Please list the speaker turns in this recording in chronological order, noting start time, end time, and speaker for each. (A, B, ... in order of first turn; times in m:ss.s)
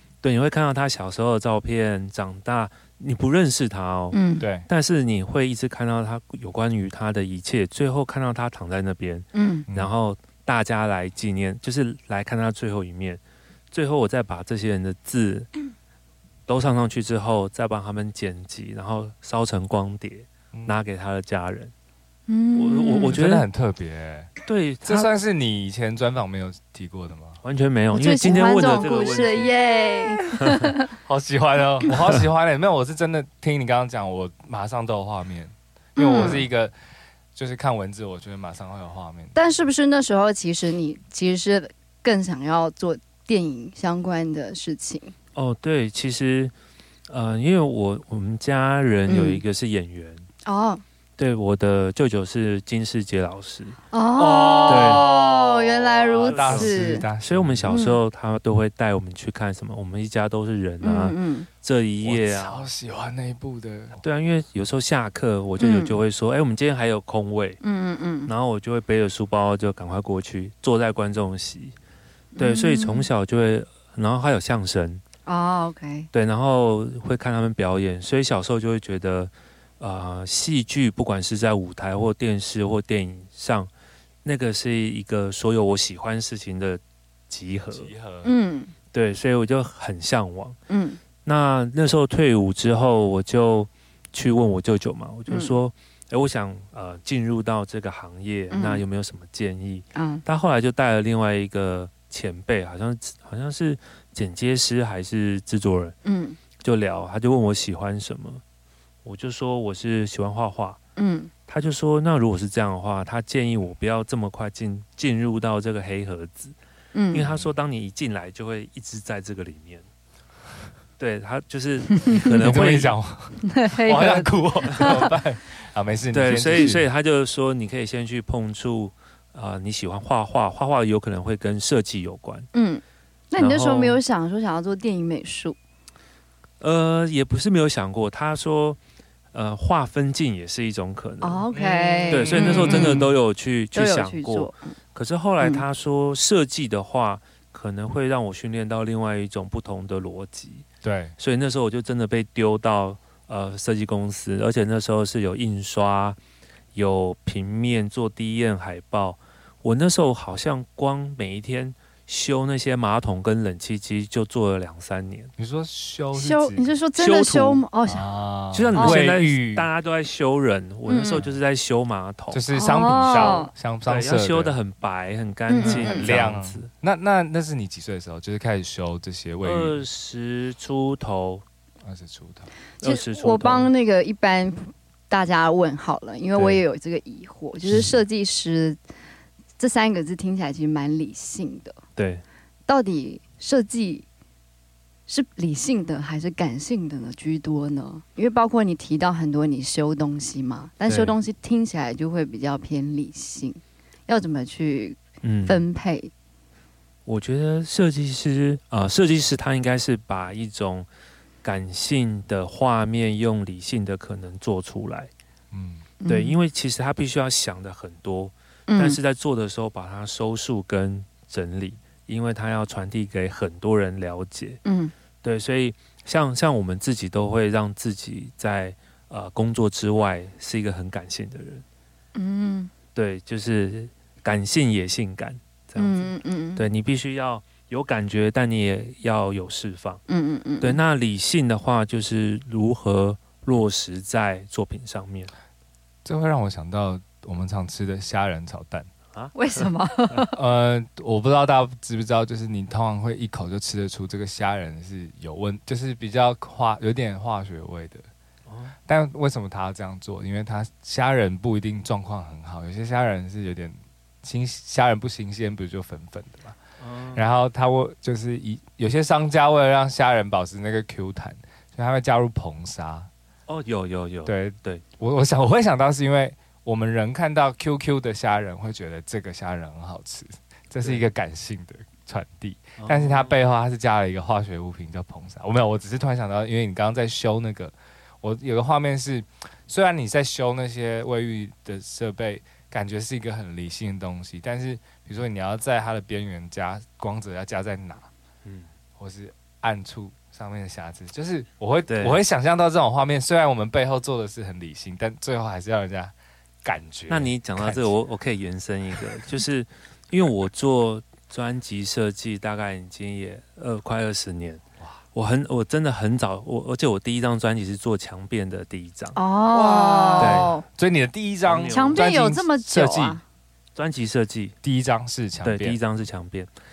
0:00.2-0:15.5 A
0:04.1-0:04.4 B
0:04.4-0:04.7 C
0:09.3-0:09.6 B
0:16.5-0:21.7 A
0:22.3-0:23.2 B
0:22.5-0:23.4 A
0:23.1-0:24.3 C
0:24.4-0:25.1 A
0:24.8-0:27.4 C
0:27.4-0:29.5 A
0:27.9-0:30.9 B
0:30.4-0:30.7 A
0:31.0-0:36.7 C
0:36.0-0:36.4 B
0:36.1-0:36.4 A
0:37.3-0:39.3 C
0:39.3-0:45.1 B
0:45.3-0:46.5 A
0:47.1-0:50.2 A
0:49.1-0:49.4 B
0:50.4-0:50.8 B
0:51.2-0:53.8 A
0:53.9-0:57.0 B
0:54.2-0:55.1 C
0:54.6-0:55.1 A
0:56.1-1:02.6 A
0:56.1-0:57.7 C
0:57.7-0:58.0 B
1:00.8-1:01.5 B
1:02.0-1:04.0 C
1:04.0-1:07.6 A
1:05.6-1:06.0 B
1:07.6-1:08.3 B
1:08.3-1:11.8 A
1:12.3-1:13.1 B
1:12.4-1:15.0 A
1:15.2-1:16.1 B
1:16.1-1:23.7 A
1:24.2-1:27.9 A
1:27.7-1:28.3 C
1:28.2-1:28.7 B
1:28.9-1:30.6 A
1:30.7-1:31.0 B
1:31.2-1:45.9 A
1:35.3-1:35.5 B
1:38.5-1:38.8 B
1:39.9-1:40.2 B
1:46.0-1:46.4 B
1:46.6-1:48.4 A
1:49.0-1:50.8 A
1:51.0-1:51.3 B
1:51.5-1:56.6 A
1:56.9-1:57.3 B
1:57.1-1:59.8 A
2:01.0-2:03.0 A
2:01.9-2:02.3 B
2:02.3-2:06.8 C
2:03.4-2:05.1 B
2:06.1-2:12.5 A
2:12.5-2:15.6 B
2:13.4-2:14.0 A
2:16.6-2:18.8 A
2:19.3-2:21.4 A
2:21.2-2:23.1 B
2:21.5-2:23.1 C
2:22.1-2:30.6 A
2:23.7-2:24.6 B
2:30.8-2:31.1 C
2:31.2-2:36.2 A
2:36.7-2:45.3 A
2:45.4-2:46.7 C
2:46.1-2:48.1 B
2:47.0-2:47.6 A
2:47.9-2:49.7 C
2:48.5-2:56.7 A
2:48.8-2:49.0 B
2:50.9-2:51.2 B
2:52.3-2:54.6 C
2:52.5-2:53.5 B
2:55.5-2:56.1 B
2:55.6-2:59.8 C
2:59.4-3:01.4 A
3:01.8-3:02.5 C
3:02.8-3:03.7 A
3:02.8-3:08.8 B
3:06.4-3:06.6 A
3:09.6-3:11.8 B
3:12.0-3:12.2 A
3:12.7-3:14.0 B
3:15.1-3:26.1 B
3:20.9-3:21.2 A
3:25.2-3:25.6 A
3:27.0-3:30.9 A
3:31.4-3:35.1 A
3:35.5-3:35.8 C
3:36.0-3:36.4 B
3:36.1-3:44.6 A
3:38.7-3:39.0 B
3:44.6-3:44.9 B
3:45.2-3:51.6 A
3:52.1-3:52.7 B
3:52.9-4:00.0 A
3:55.8-3:56.6 B
4:00.1-4:00.8 B
4:00.6-4:05.3 A
4:06.0-4:08.9 C
4:09.1-4:10.2 A
4:09.3-4:10.4 B
4:10.3-4:18.1 C
4:18.4-4:18.7 A
4:18.9-4:26.6 C
4:26.8-4:27.2 A
4:27.1-4:33.1 C
4:33.5-4:34.8 A
4:34.2-4:58.1 C
4:42.8-4:43.4 A
4:59.0-5:07.9 C
5:01.9-5:02.2 A
5:07.1-5:14.6 A
5:15.1-5:19.2 A
5:19.2-5:20.6 B
5:19.5-5:23.2 C
5:20.2-5:20.6 A
5:21.4-5:22.0 A
5:21.7-5:23.2 B
5:23.7-5:24.6 A
5:24.6-5:25.8 C
5:25.4-5:26.5 A